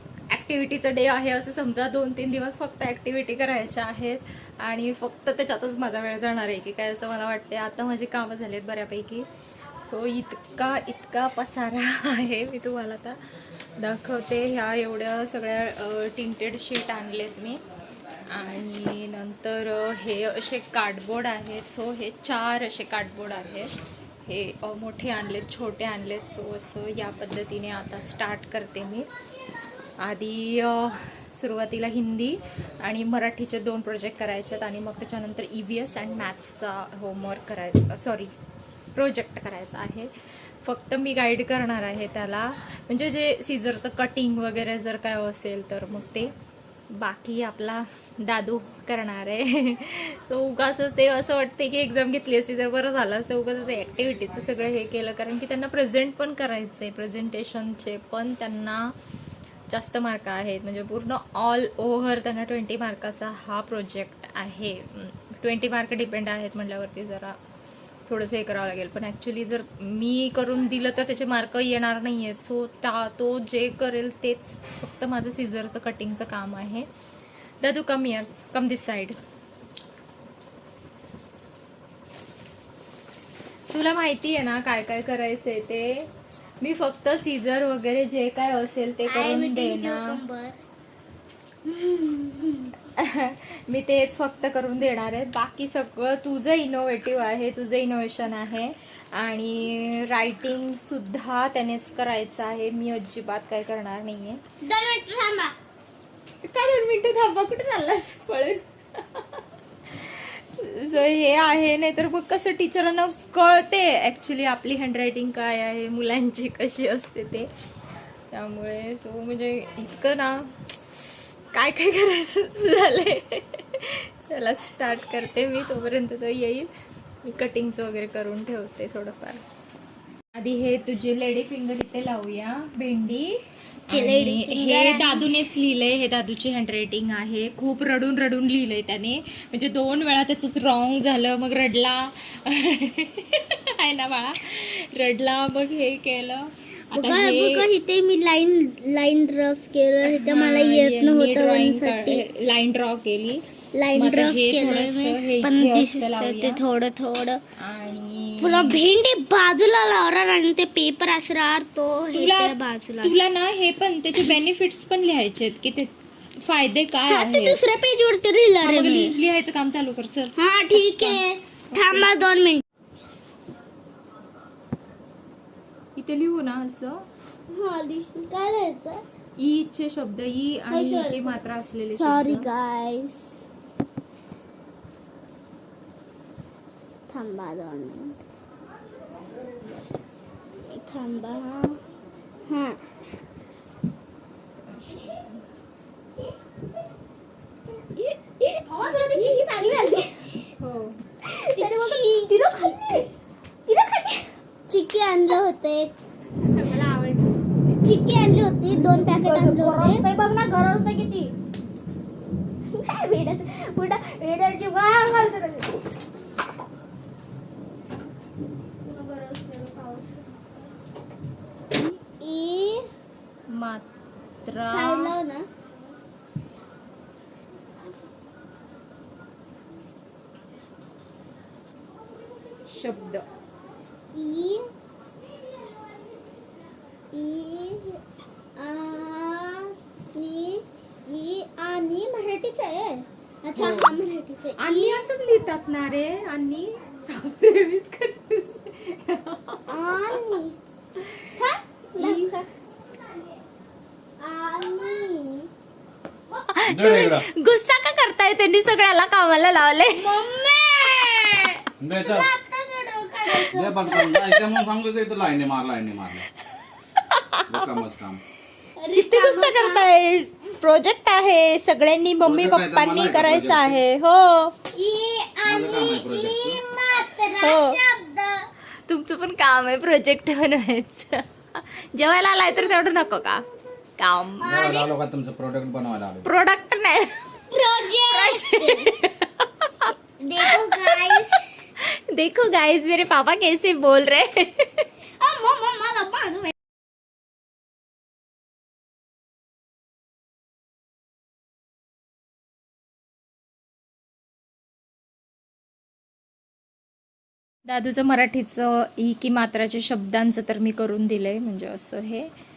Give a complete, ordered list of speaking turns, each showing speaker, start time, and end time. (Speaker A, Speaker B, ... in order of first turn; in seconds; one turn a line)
Speaker A: 0.3-9.3
Speaker A: 9.8-13.2
Speaker A: 13.8-17.6
Speaker A: 18.3-23.7
Speaker A: 24.2-29.1
Speaker A: 30.0-38.3
Speaker A: 38.9-40.1
Speaker A: 40.6-46.3
Speaker A: 46.9-58.9
Speaker A: 59.7-67.4
Speaker A: 68.1-76.9
Speaker A: 77.6-79.2
Speaker A: 83.7-86.1
Speaker A: 86.6-90.2
Speaker B: 89.1-90.6
Speaker B: 91.7-92.7
Speaker A: 92.9-104.4
Speaker B: 104.6-105.5
Speaker A: 106.4-117.5
Speaker A: 118.3-126.7
Speaker A: 127.2-129.4
Speaker A: 130.3-133.3
Speaker A: 133.9-147.6
Speaker B: 133.9-135.3
Speaker B: 146.9-152.3
Speaker A: 150.0-156.6
Speaker B: 153.7-157.4
Speaker A: 157.6-158.8
Speaker B: 158.4-163.2
Speaker A: 162.1-167.6
Speaker B: 167.1-169.1
Speaker A: 168.6-172.1
Speaker B: 170.4-172.6
Speaker A: 175.9-177.0
Speaker B: 177.5-179.0
Speaker A: 179.4-182.5
Speaker B: 180.7-181.4
Speaker B: 182.0-183.4
Speaker B: 187.1-188.2
Speaker B: 190.7-191.8
Speaker B: 192.4-192.8
Speaker A: 194.7-195.4
Speaker B: 198.7-200.3
Speaker C: 198.7-200.0
Speaker A: 200.6-201.0
Speaker B: 201.2-203.0
Speaker C: 201.6-203.0
Speaker C: 203.7-204.2
Speaker B: 204.7-205.9
Speaker A: 206.4-207.4
Speaker B: 207.8-210.0
Speaker C: 208.9-211.3
Speaker B: 212.7-214.3
Speaker B: 214.9-215.7
Speaker C: 218.9-220.2
Speaker B: 221.8-222.8
Speaker A: 223.5-223.9
Speaker A: 224.4-225.2
Speaker B: 224.7-225.5
Speaker A: 232.7-233.2
Speaker B: 234.1-234.7
Speaker B: 237.1-238.0
Speaker B: 238.6-245.1
Speaker A: 243.6-244.0
Speaker A: 244.6-249.7
Speaker B: 249.7-250.6
Speaker B: 251.3-252.4
Speaker A: 252.0-252.4
Speaker B: 254.2-255.5
Speaker A: 256.5-260.1
Speaker D: 256.6-257.2
Speaker B: 259.9-264.4
Speaker D: 261.8-262.3
Speaker D: 263.4-266.3
Speaker A: 266.9-267.7
Speaker D: 267.5-268.2
Speaker B: 268.8-269.9
Speaker A: 268.9-274.5
Speaker D: 272.2-273.8
Speaker B: 274.7-278.5
Speaker D: 275.4-276.7
Speaker A: 277.4-277.8
Speaker A: 278.9-283.4
Speaker B: 282.5-283.6
Speaker A: 284.0-284.6
Speaker B: 284.4-284.9
Speaker D: 284.4-286.3
Speaker A: 286.2-287.5
Speaker B: 287.5-288.9
Speaker A: 288.1-289.9
Speaker B: 290.2-291.6
Speaker A: 290.4-291.2
Speaker A: 291.8-294.9
Speaker B: 295.2-296.6
Speaker A: 307.7-312.3